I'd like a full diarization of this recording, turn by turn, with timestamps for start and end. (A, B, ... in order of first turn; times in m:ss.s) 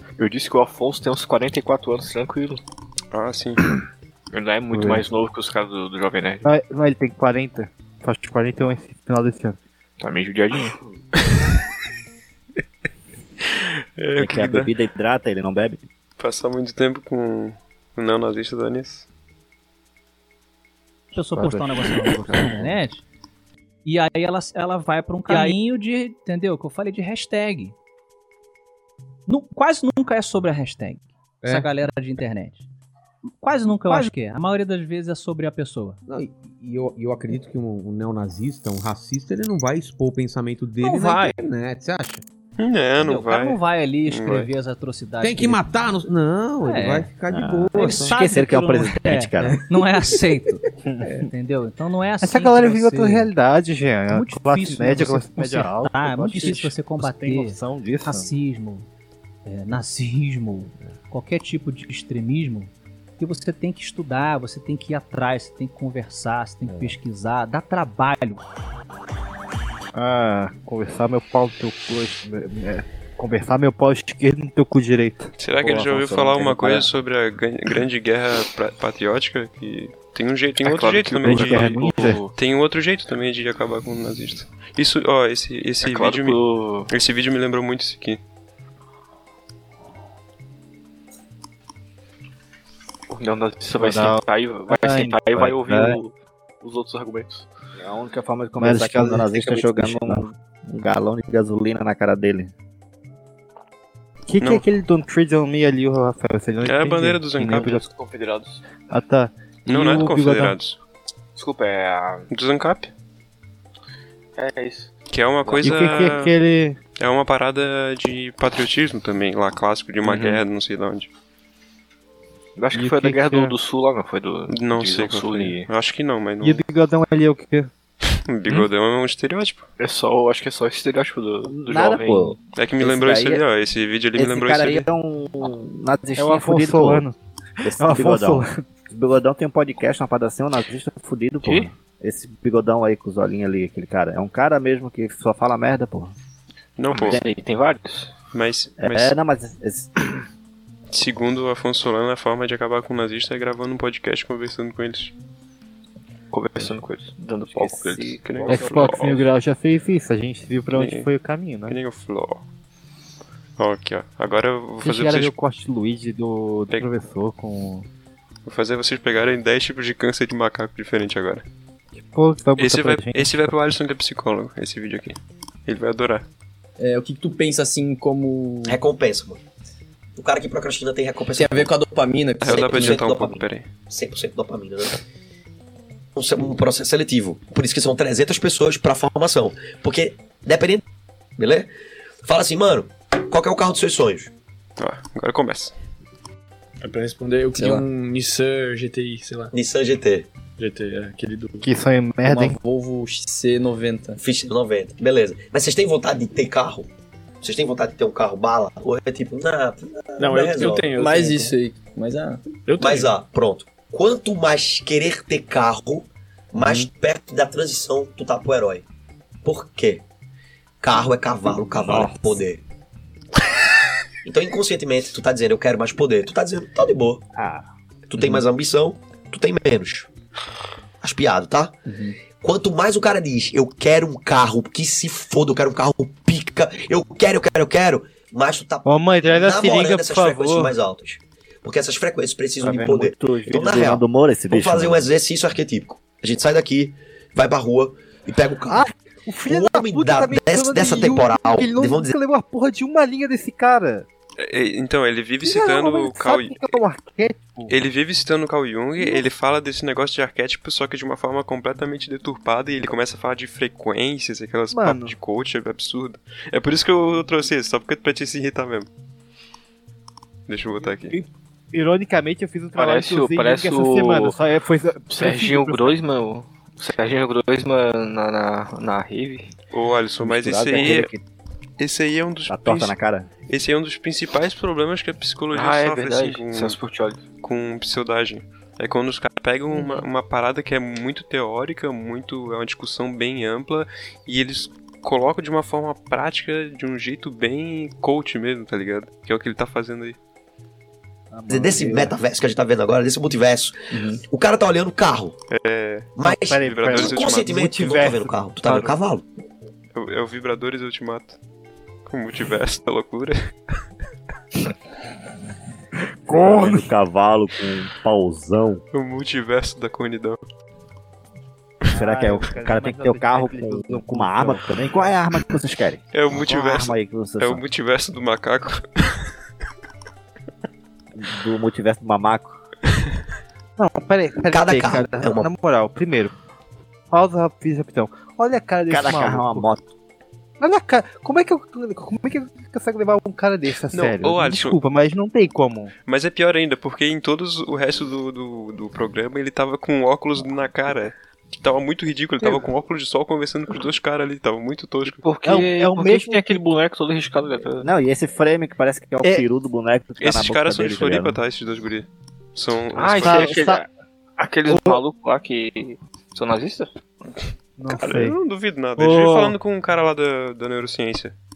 0:00.2-0:02.6 A
0:03.1-0:03.7 B
0:04.3-0:06.5 A
0:04.7-0:05.0 C
0:06.4-0:09.6 C
0:10.0-0:10.8 A
0:14.0-0:14.7 B
0:14.2-0:15.8 D
0:16.2-0:19.0 B
0:21.1-0:23.0 E
0:21.3-0:22.5 C
0:23.8-0:27.8 E
0:29.3-0:32.6 E
0:31.4-0:31.7 F
0:33.4-0:36.0 E
0:36.1-0:42.2 F
0:40.8-0:41.4 E
0:42.6-0:44.5 B
0:43.1-0:45.6 E
0:45.2-0:48.2 F
0:46.6-0:47.1 E
0:47.3-0:49.6 D
0:47.7-0:53.3 E
0:50.8-0:51.2 C
0:52.2-0:58.3 C
0:54.1-0:58.9 E
0:59.4-1:08.4 E
1:09.9-1:16.8 C
1:15.4-1:28.2 B
1:20.6-1:22.3 A
1:21.2-1:22.2 C
1:25.8-1:26.9 A
1:33.1-1:37.4 A
1:33.7-1:36.0 C
1:37.8-1:42.5 D
1:38.6-1:40.3 C
1:44.3-1:47.8 C
1:46.6-1:47.8 B
1:47.8-1:48.6 A
1:48.9-1:50.6 C
1:49.6-1:50.8 B
1:51.4-1:52.3 A
1:52.3-1:52.9 B
1:54.4-1:54.9 A
1:55.1-1:56.3 B
1:55.4-1:55.8 A
1:55.6-1:56.8 C
1:57.0-2:01.1 B
2:00.0-2:00.4 A
2:02.6-2:05.7 A
2:02.7-2:03.5 C
2:04.5-2:06.6 B
2:06.4-2:07.7 C
2:08.2-2:09.6 B
2:09.8-2:12.4 A
2:11.5-2:13.4 D
2:12.6-2:14.9 B
2:14.2-2:17.0 D
2:16.2-2:17.1 C
2:17.6-2:26.1 D
2:17.7-2:18.6 C
2:21.4-2:21.7 A
2:26.8-2:27.2 B
2:26.9-2:28.1 A
2:28.3-2:29.2 B
2:28.8-2:30.1 D
2:30.9-2:35.1 B
2:36.3-2:39.2 A
2:37.5-2:38.6 D
2:38.2-2:39.2 B
2:38.5-2:41.8 C
2:40.7-2:41.1 B
2:41.7-2:42.4 B
2:43.6-2:45.3 B
2:44.8-2:47.9 C
2:48.4-2:51.4 B
2:52.0-2:53.4 C
2:52.6-2:56.2 B
2:56.8-2:58.8 G
2:58.6-2:59.4 H
3:00.2-3:01.7 H
3:01.3-3:03.0 G
3:02.4-3:03.7 B
3:02.4-3:05.0 H
3:06.2-3:10.8 H
3:11.4-3:11.7 H
3:12.2-3:14.3 H
3:14.8-3:15.7 B
3:16.8-3:19.5 I
3:17.6-3:17.8 G
3:19.5-3:20.3 H
3:20.6-3:21.7 I
3:21.6-3:22.6 C
3:22.2-3:24.2 G
3:24.2-3:26.9 H
3:27.4-3:30.9 H
3:30.2-3:31.5 I
3:31.0-3:32.4 G
3:32.6-3:33.1 I
3:32.8-3:38.8 H
3:39.4-3:40.0 H
3:40.8-3:42.6 H
3:41.7-3:42.4 D
3:44.2-3:47.2 H
3:47.3-3:47.7 D
3:48.1-3:50.1 H
3:48.2-3:48.4 G
3:51.0-4:08.8 H
3:51.9-3:52.1 G
3:58.8-4:00.7 C
4:02.6-4:05.0 D
4:08.7-4:14.0 C
4:09.4-4:12.1 H
4:14.4-4:16.8 B
4:15.4-4:17.7 C
4:17.7-4:28.9 B
4:19.0-4:19.2 C
4:24.7-4:25.2 C
4:30.5-4:31.2 B
4:31.1-4:36.0 C
4:32.7-4:34.4 A
4:35.1-4:39.5 A
4:39.7-4:41.1 B
4:40.2-4:41.2 D
4:41.8-4:43.0 B
4:42.5-4:43.3 D
4:43.5-4:46.8 B
4:45.5-4:47.2 A
4:47.4-5:00.2 B
4:49.7-4:50.0 A
5:01.3-5:02.2 C
5:01.5-5:03.7 H
5:03.9-5:04.2 G
5:04.2-5:05.4 H
5:05.5-5:07.6 B
5:06.2-5:09.2 H
5:06.2-5:08.4 C
5:08.6-5:08.9 B
5:09.9-5:11.4 B
5:12.0-5:13.5 B
5:16.2-5:16.9 C
5:16.3-5:18.8 D
5:18.9-5:20.4 B
5:21.9-5:24.7 C
5:21.9-5:27.6 D
5:26.1-5:29.2 B
5:31.1-5:32.6 D
5:33.8-5:36.3 C
5:34.5-5:35.5 H
5:37.1-5:39.7 C
5:38.9-5:39.8 D
5:40.6-5:45.9 C
5:43.9-5:44.8 B
5:46.1-5:55.2 B
5:55.2-5:57.9 A
5:55.4-5:56.6 C
5:57.8-6:01.4 D
6:00.2-6:03.6 B
6:02.9-6:06.9 A
6:03.2-6:03.8 C
6:04.7-6:05.0 C
6:07.8-6:08.4 C
6:07.9-6:11.3 B
6:09.0-6:09.5 C